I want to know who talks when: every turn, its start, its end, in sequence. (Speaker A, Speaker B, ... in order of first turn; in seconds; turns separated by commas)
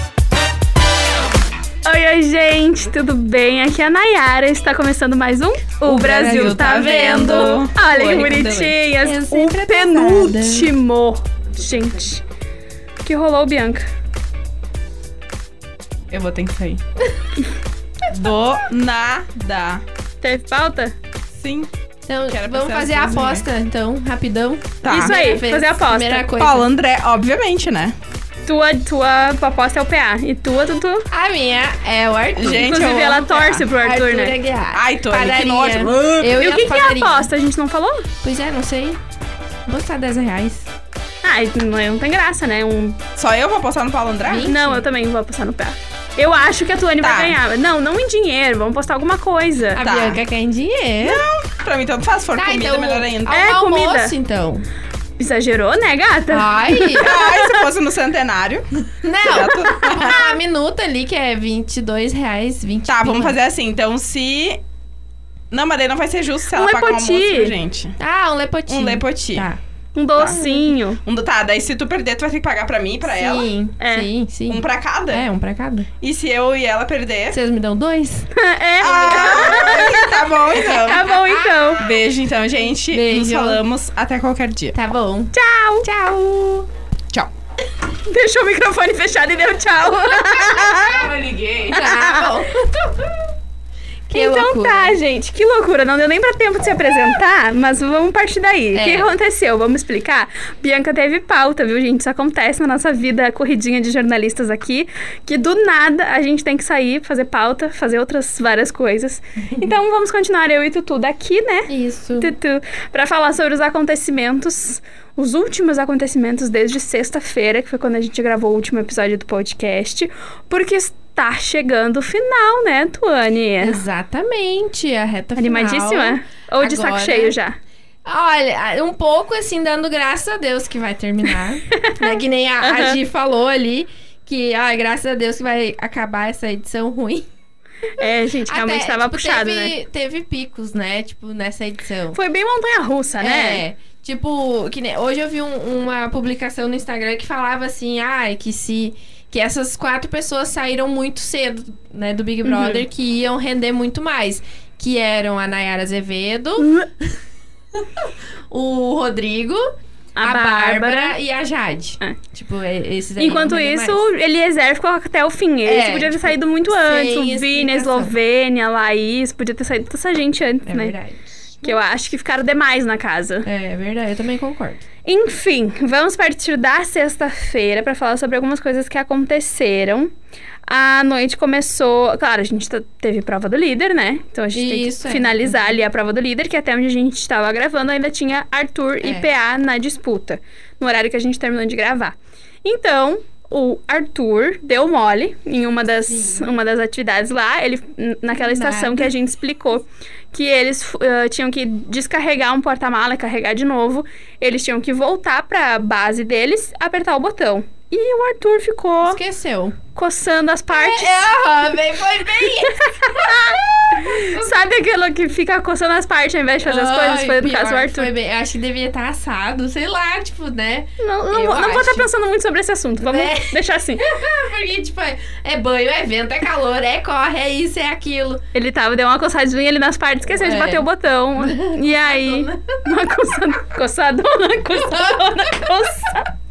Speaker A: 1.8-12.2, Speaker B: 5.8-8.7, Speaker C: 5.9-8.4, Speaker C: 9.0-10.7, Speaker A: 13.0-13.8, Speaker B: 16.1-16.8, Speaker B: 18.1-19.8, Speaker A: 20.2-20.9, Speaker B: 21.3-21.7, Speaker C: 22.1-26.7, Speaker B: 22.3-23.4, Speaker B: 24.8-25.1, Speaker A: 24.9-26.3, Speaker B: 26.4-27.9, Speaker A: 28.4-31.1, Speaker C: 31.1-32.8, Speaker B: 32.4-33.7, Speaker A: 32.5-34.3, Speaker C: 33.8-37.3, Speaker B: 34.7-36.4, Speaker A: 36.4-38.1, Speaker C: 38.2-39.0, Speaker C: 39.6-40.7, Speaker A: 41.2-43.0, Speaker B: 43.1-44.5, Speaker C: 44.2-44.9, Speaker A: 44.4-49.8, Speaker B: 47.0-47.4, Speaker C: 49.7-51.2, Speaker B: 49.8-50.2, Speaker B: 51.0-53.4, Speaker C: 52.3-54.6, Speaker A: 53.3-54.1, Speaker A: 55.2-57.6, Speaker C: 56.3-57.1, Speaker B: 57.0-60.3, Speaker C: 59.0-63.4, Speaker B: 62.9-64.6, Speaker B: 65.5-68.0, Speaker A: 66.5-67.5, Speaker C: 68.0-69.6, Speaker B: 68.7-69.5, Speaker A: 69.9-71.0, Speaker B: 70.2-73.5, Speaker C: 73.0-75.9, Speaker A: 73.8-74.1, Speaker B: 74.5-75.2, Speaker B: 76.0-77.4, Speaker C: 77.3-78.3, Speaker A: 78.3-81.8, Speaker B: 78.8-81.1, Speaker C: 78.8-81.8, Speaker B: 81.8-84.7, Speaker C: 82.9-83.6, Speaker C: 84.7-86.7, Speaker A: 85.3-85.9, Speaker A: 88.0-91.0, Speaker C: 90.3-91.0, Speaker B: 90.5-91.9, Speaker C: 91.7-93.3, Speaker A: 91.7-92.3, Speaker C: 94.1-95.0, Speaker A: 94.1-123.8, Speaker C: 98.7-99.1, Speaker C: 109.5-109.8, Speaker C: 111.7-112.3, Speaker C: 123.6-127.3, Speaker A: 125.4-127.5, Speaker C: 128.0-137.3, Speaker A: 131.7-133.0, Speaker A: 137.9-139.7, Speaker C: 138.0-142.2, Speaker A: 142.1-143.6, Speaker C: 143.2-157.2, Speaker A: 152.4-152.8, Speaker A: 156.6-156.9, Speaker C: 157.7-159.6, Speaker A: 160.2-161.2, Speaker C: 160.2-164.0, Speaker A: 163.2-170.9, Speaker C: 165.6-168.1, Speaker C: 170.7-171.8, Speaker A: 171.6-173.5, Speaker C: 173.4-174.8, Speaker A: 175.0-180.1, Speaker A: 180.7-209.2, Speaker C: 184.5-185.8, Speaker C: 189.0-189.3, Speaker C: 196.1-196.5, Speaker C: 198.4-199.1, Speaker C: 209.0-209.8, Speaker A: 209.9-211.4, Speaker C: 210.7-214.6, Speaker A: 212.4-218.1, Speaker C: 216.6-222.1, Speaker A: 221.0-224.1, Speaker C: 223.0-228.4, Speaker A: 228.5-236.3, Speaker C: 230.3-230.8, Speaker C: 231.4-232.8, Speaker C: 234.7-236.1